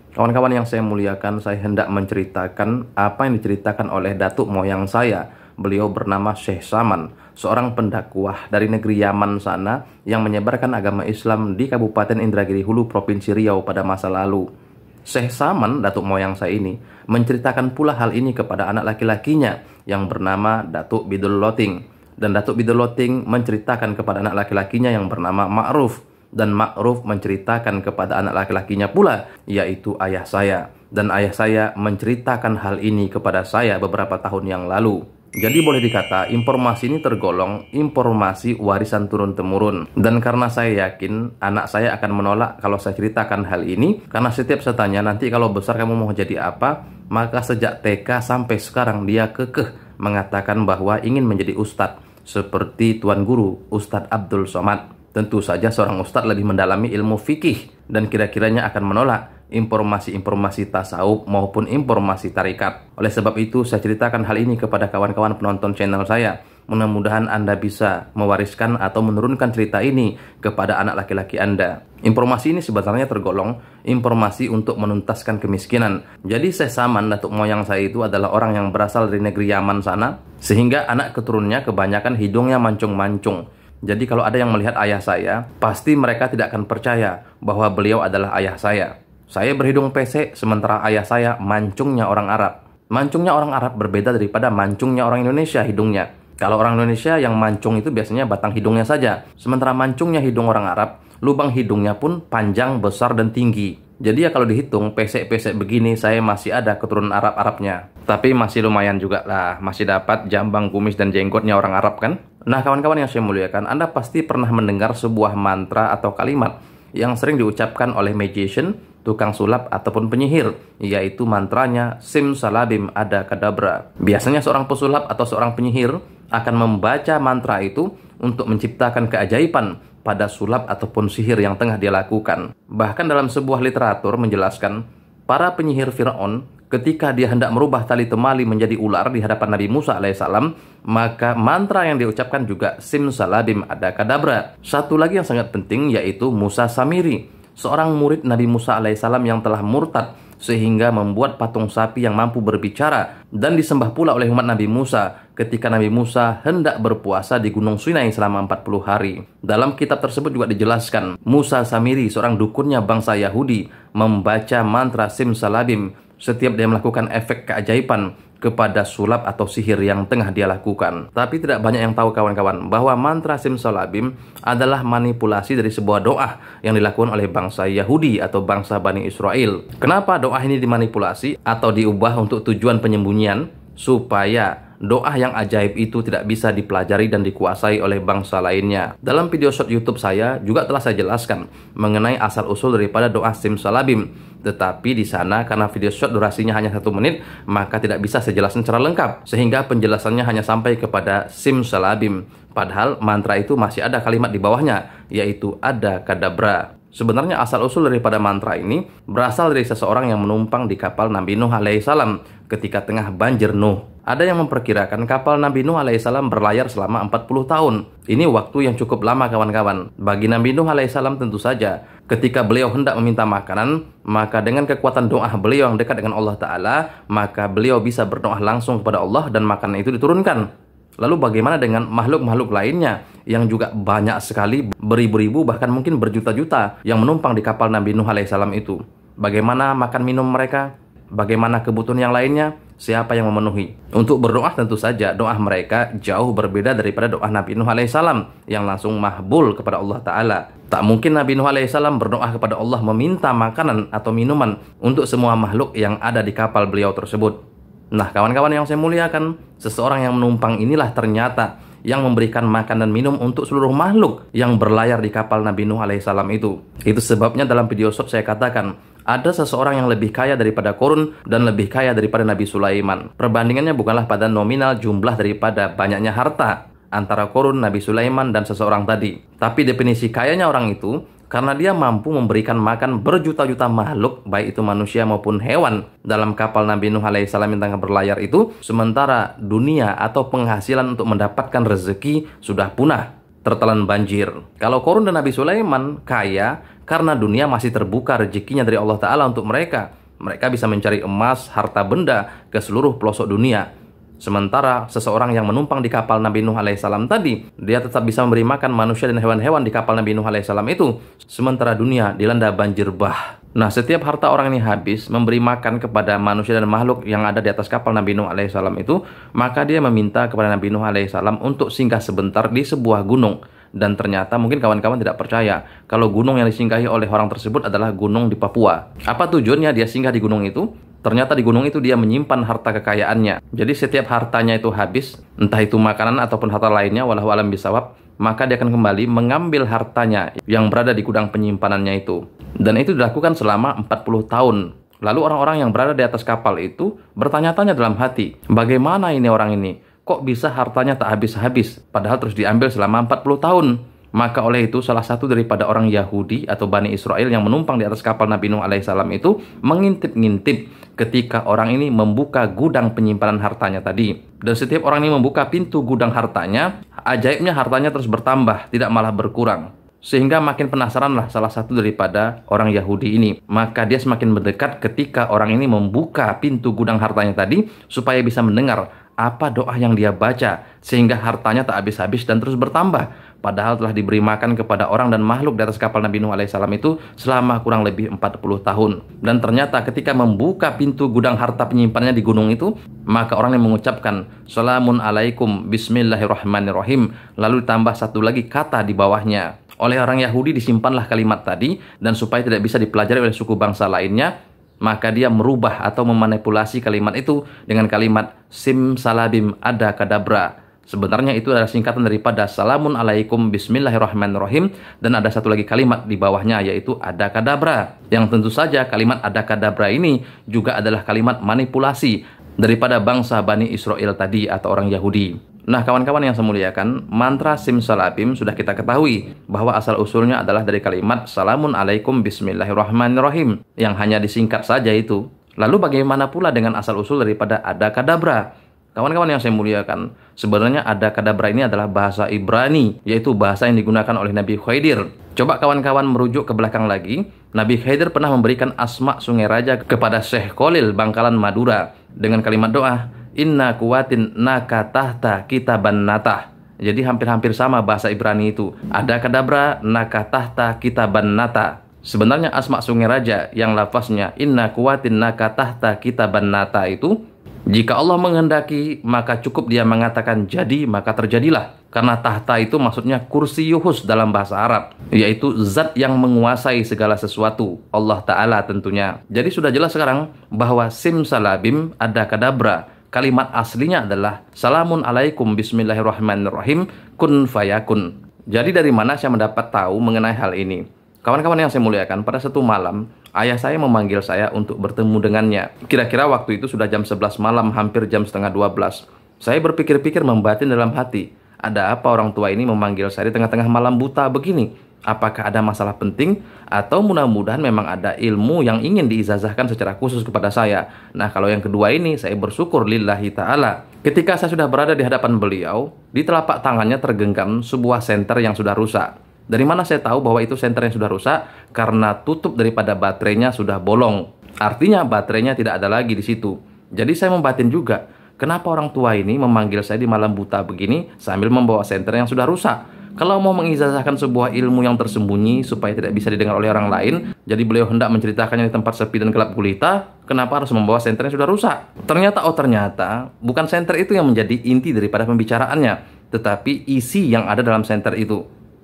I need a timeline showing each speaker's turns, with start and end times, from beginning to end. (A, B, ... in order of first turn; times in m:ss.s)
0:00.2-0:14.5 A
0:15.1-3:50.5 A
3:51.0-4:17.4 A
4:17.9-5:03.7 A
5:04.2-6:44.3 A
6:44.8-7:18.4 A
7:19.0-7:47.1 A
7:47.7-9:08.4 A